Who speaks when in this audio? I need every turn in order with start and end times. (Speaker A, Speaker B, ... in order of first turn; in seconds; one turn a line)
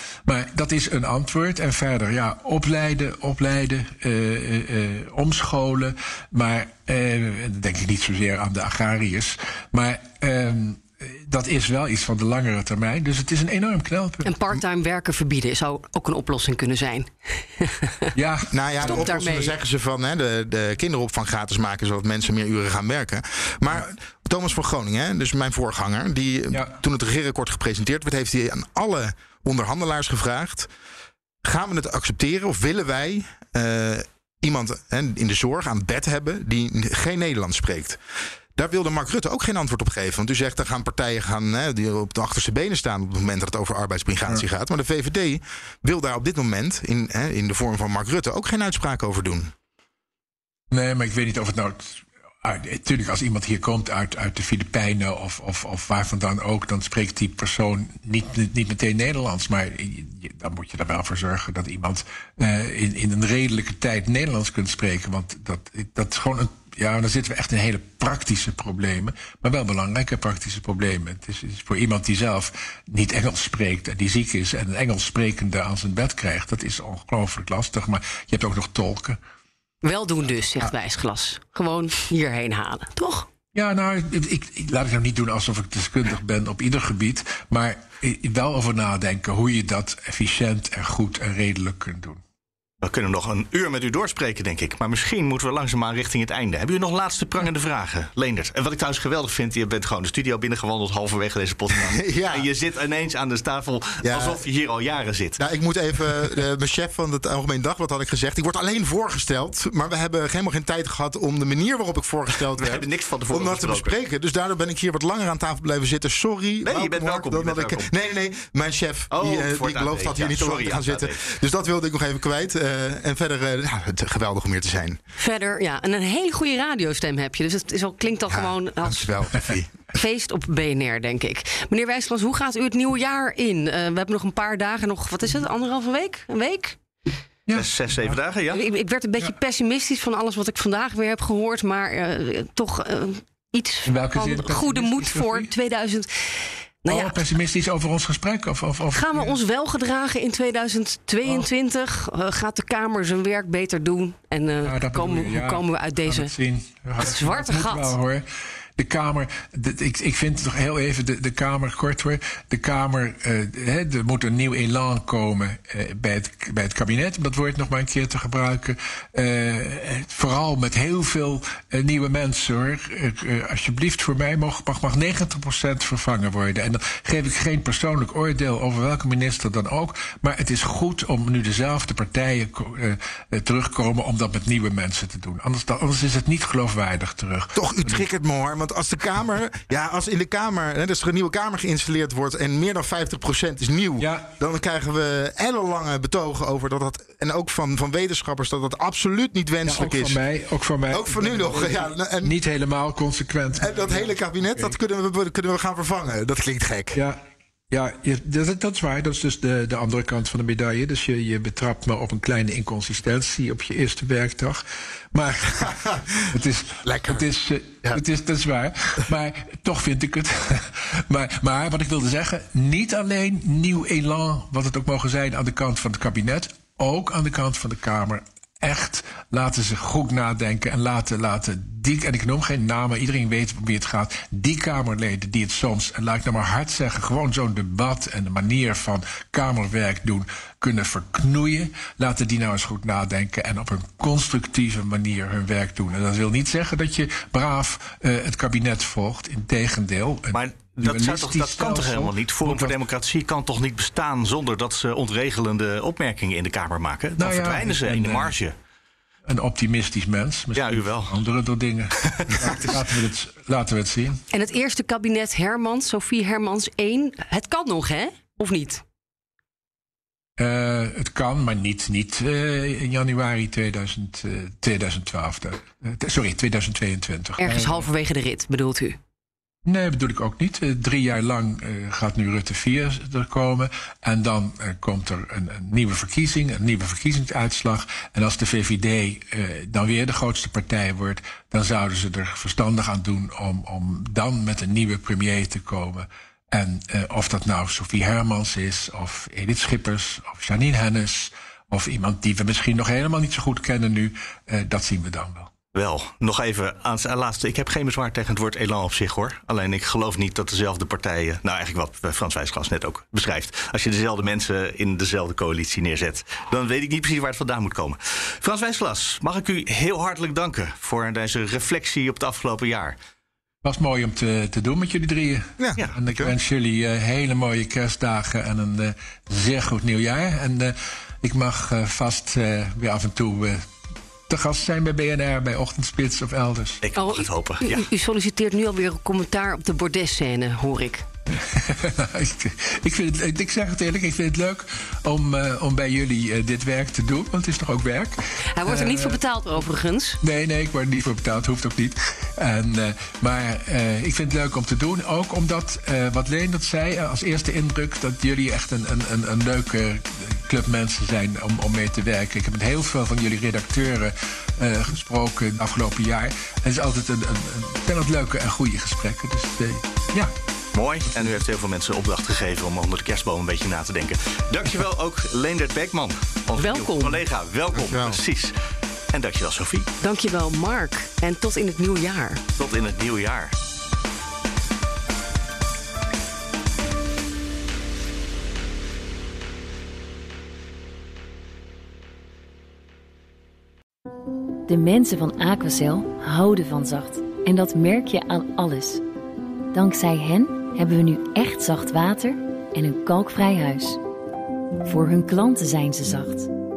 Speaker A: 0.2-14.3
Speaker B: 14.2-18.1
Speaker A: 18.1-19.1
Speaker C: 18.5-30.7
Speaker B: 18.9-19.6
Speaker A: 26.5-26.8
Speaker C: 31.4-38.0
Speaker C: 38.5-49.5
Speaker A: 50.7-79.2
Speaker B: 79.8-83.3
Speaker A: 83.5-92.2
Speaker D: 92.8-105.4
Speaker C: 101.9-102.5
Speaker C: 104.0-104.4
Speaker C: 105.4-125.0
Speaker D: 112.6-114.0
Speaker D: 116.6-117.9
Speaker D: 119.1-121.3
Speaker B: 125.2-129.1
Speaker C: 128.3-129.8
Speaker B: 129.9-136.8
Speaker A: 137.5-138.2
Speaker D: 137.5-138.6
Speaker B: 138.5-147.2
Speaker A: 143.8-145.5
Speaker A: 146.9-149.4
Speaker B: 148.9-156.3
Speaker A: 154.6-188.1
Speaker B: 157.0-157.9
Speaker C: 187.6-200.2
Speaker A: 194.0-194.3
Speaker A: 199.6-204.8
Speaker C: 200.9-202.3
Speaker C: 203.6-207.0
Speaker A: 206.9-207.2
Speaker A: 207.7-215.7
Speaker C: 215.7-216.3
Speaker A: 216.3-252.8
Speaker C: 216.8-217.2
Speaker D: 250.3-258.5
Speaker A: 257.2-258.3
Speaker A: 259.3-264.2
Speaker D: 260.6-261.1
Speaker D: 262.4-262.7
Speaker B: 264.3-268.8
Speaker A: 270.4-277.9
Speaker B: 277.4-279.0
Speaker A: 279.6-305.5
Speaker D: 305.7-323.0
Speaker A: 323.6-333.7
Speaker C: 325.6-326.3
Speaker A: 334.3-336.8
Speaker D: 336.8-337.9
Speaker B: 336.9-341.1
Speaker A: 341.3-349.2
Speaker B: 348.6-350.2
Speaker A: 350.2-370.3
Speaker D: 370.7-378.6
Speaker B: 376.6-377.2
Speaker C: 377.7-378.2
Speaker D: 379.1-379.9
Speaker B: 380.0-382.4
Speaker D: 382.6-383.6
Speaker E: 394.7-399.0
Speaker E: 399.7-404.0
Speaker E: 404.8-406.5